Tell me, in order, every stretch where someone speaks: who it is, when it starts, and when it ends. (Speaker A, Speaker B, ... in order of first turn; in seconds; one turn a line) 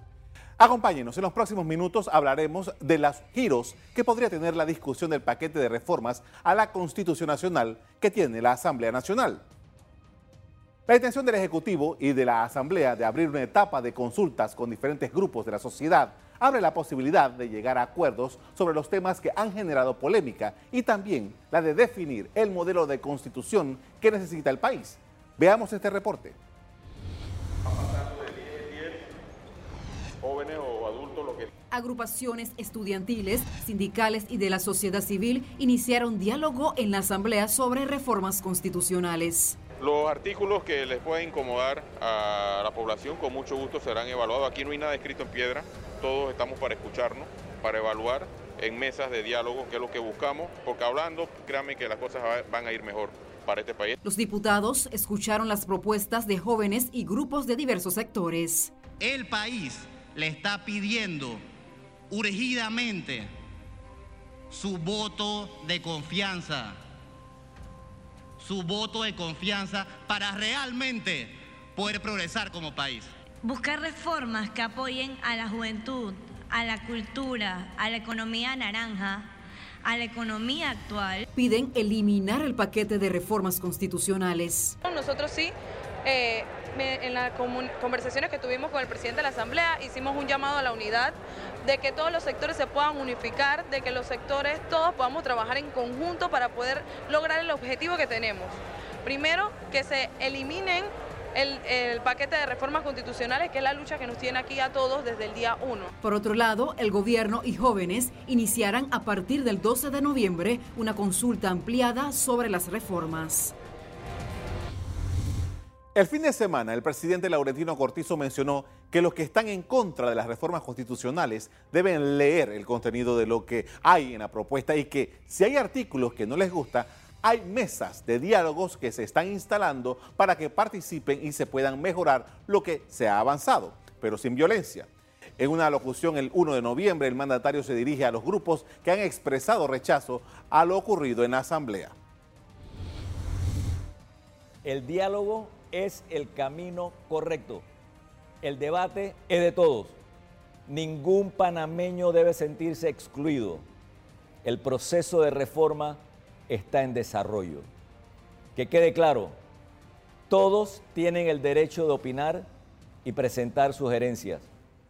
Speaker A: 0.6-9.4
Speaker A: 10.9-26.4
Speaker B: 27.6-29.1
Speaker B: 30.2-31.5
Speaker C: 31.7-39.6
Speaker B: 39.8-54.0
Speaker C: 54.0-58.7
Speaker D: 59.0-61.4
Speaker D: 62.1-63.3
Speaker D: 64.5-66.8
Speaker D: 68.4-73.1
Speaker E: 73.4-79.3
Speaker E: 79.8-81.2
Speaker C: 81.3-84.8
Speaker F: 84.8-85.5
Speaker F: 86.0-105.9
Speaker C: 106.0-113.5
Speaker A: 115.9-141.9
Speaker G: 144.6-147.6
Speaker G: 148.4-150.0
Speaker G: 150.7-153.6
Speaker G: 154.4-157.7
Speaker G: 158.6-159.4
Speaker G: 160.3-162.5
Speaker G: 163.0-164.5